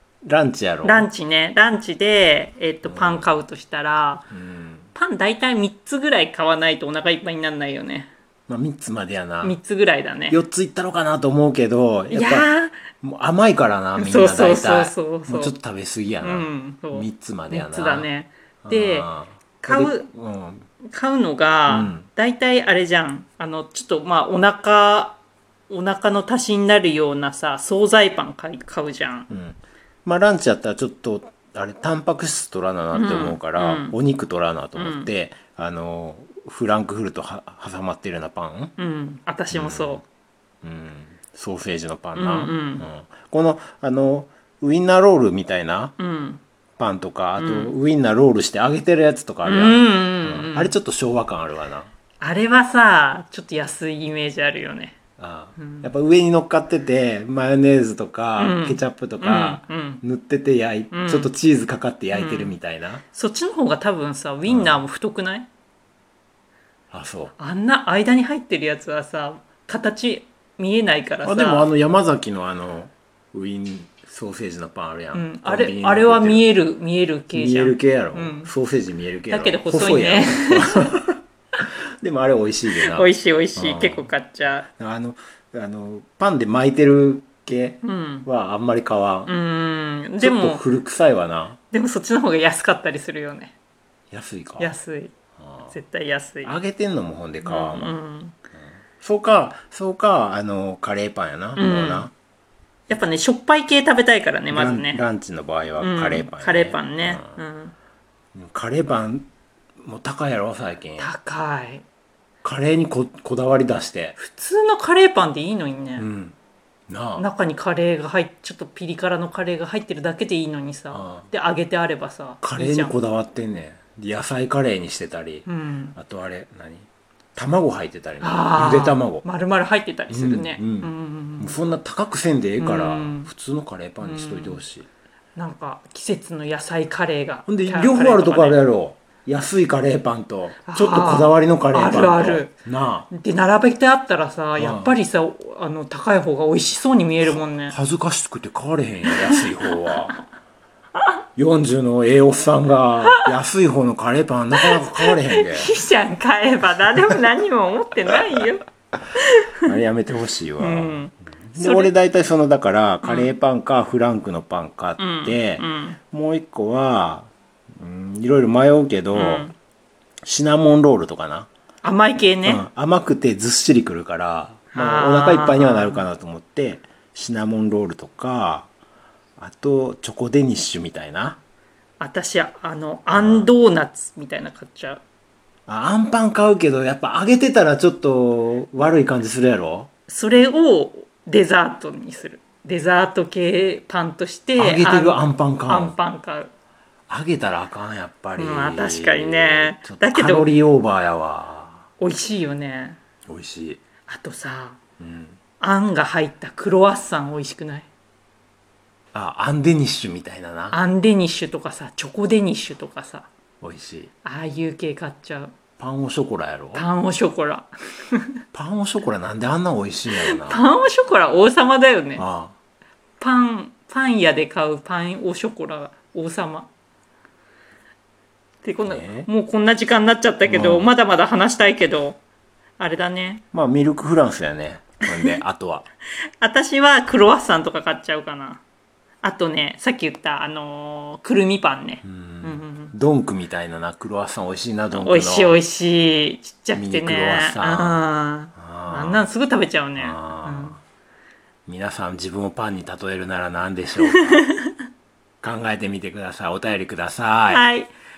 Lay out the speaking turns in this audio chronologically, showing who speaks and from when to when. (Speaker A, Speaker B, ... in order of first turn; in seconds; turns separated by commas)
Speaker A: 0.2-1.1, Speaker B: 0.8-4.2, Speaker A: 2.8-3.3, Speaker A: 4.3-4.9, Speaker B: 5.0-8.1, Speaker A: 8.5-9.6, Speaker B: 9.4-10.4, Speaker A: 10.3-18.1, Speaker B: 12.1-12.9, Speaker B: 14.0-15.6, Speaker B: 16.2-19.1, Speaker A: 18.6-20.7, Speaker B: 19.6-20.1, Speaker B: 20.8-29.3, Speaker A: 21.7-22.1, Speaker A: 29.3-38.7, Speaker B: 32.9-34.0, Speaker B: 34.8-35.1, Speaker B: 38.8-40.0, Speaker A: 39.5-40.0, Speaker A: 40.6-45.9, Speaker B: 42.1-42.9, Speaker B: 46.0-46.4, Speaker A: 46.8-51.9, Speaker B: 47.4-47.7, Speaker B: 49.4-50.8, Speaker B: 52.2-55.0, Speaker A: 55.2-63.0, Speaker B: 55.6-55.9, Speaker B: 58.4-60.0, Speaker B: 60.9-61.3, Speaker B: 62.1-65.5, Speaker A: 64.5-64.8, Speaker A: 66.9-67.3, Speaker B: 67.4-71.7, Speaker A: 71.2-76.5, Speaker B: 75.1-78.5, Speaker A: 77.3-81.2, Speaker B: 79.3-80.9, Speaker A: 82.0-84.1, Speaker B: 82.8-84.7, Speaker A: 84.7-89.3, Speaker B: 87.8-88.3, Speaker B: 89.3-90.6, Speaker A: 90.2-91.6, Speaker B: 91.7-93.5, Speaker A: 94.1-94.7, Speaker B: 94.6-95.1, Speaker A: 95.4-95.7, Speaker B: 95.7-96.5, Speaker A: 96.4-98.0, Speaker B: 97.4-98.4, Speaker A: 99.0-102.1, Speaker B: 101.6-102.1, Speaker B: 102.9-105.0, Speaker A: 104.5-107.4, Speaker B: 105.8-107.7, Speaker A: 108.3-109.3, Speaker A: 109.8-111.1, Speaker B: 111.0-111.8, Speaker A: 112.4-114.2, Speaker B: 114.2-116.0, Speaker A: 116.0-116.4, Speaker A: 116.9-117.3, Speaker B: 117.2-123.0, Speaker A: 120.9-121.3, Speaker A: 122.4-129.2, Speaker B: 125.5-126.0, Speaker B: 128.2-131.6, Speaker A: 130.1-134.9, Speaker B: 132.6-133.3, Speaker B: 134.0-134.6, Speaker B: 135.4-138.6, Speaker A: 137.5-143.1, Speaker B: 140.7-142.6, Speaker B: 143.1-147.8, Speaker A: 144.6-144.9, Speaker A: 147.2-150.2, Speaker B: 149.1-150.1, Speaker A: 151.4-155.8, Speaker B: 154.6-158.6, Speaker A: 159.7-169.5, Speaker B: 160.6-161.9, Speaker B: 163.0-163.3, Speaker B: 165.0-166.0, Speaker B: 169.1-169.6, Speaker A: 170.2-171.5, Speaker B: 171.8-172.6, Speaker A: 172.4-178.7, Speaker B: 174.7-176.1, Speaker A: 179.4-181.4, Speaker B: 182.0-185.0, Speaker A: 183.1-183.5, Speaker A: 185.7-189.9, Speaker B: 190.1-196.5, Speaker A: 194.6-196.0, Speaker A: 197.1-201.9, Speaker B: 198.4-200.6, Speaker B: 202.0-203.0, Speaker A: 203.3-203.8, Speaker B: 204.0-204.8, Speaker A: 205.0-205.4, Speaker B: 205.5-207.9, Speaker A: 209.1-210.8, Speaker B: 210.7-213.3, Speaker A: 213.6-214.1, Speaker B: 214.2-215.6, Speaker A: 215.8-216.9, Speaker B: 216.7-218.3, Speaker A: 218.5-220.7, Speaker B: 220.1-222.3, Speaker A: 222.2-222.6, Speaker B: 223.2-226.7, Speaker B: 228.6-232.2, Speaker A: 228.8-229.3, Speaker A: 230.4-230.9, Speaker B: 232.8-233.4, Speaker A: 233.5-235.9, Speaker B: 235.1-235.4, Speaker B: 236.4-238.6, Speaker B: 239.2-242.9, Speaker A: 242.0-245.6, Speaker B: 244.9-250.8, Speaker A: 246.7-249.3, Speaker A: 250.0-250.8, Speaker A: 251.7-254.4, Speaker B: 254.1-254.7, Speaker A: 255.4-257.6, Speaker B: 257.5-257.9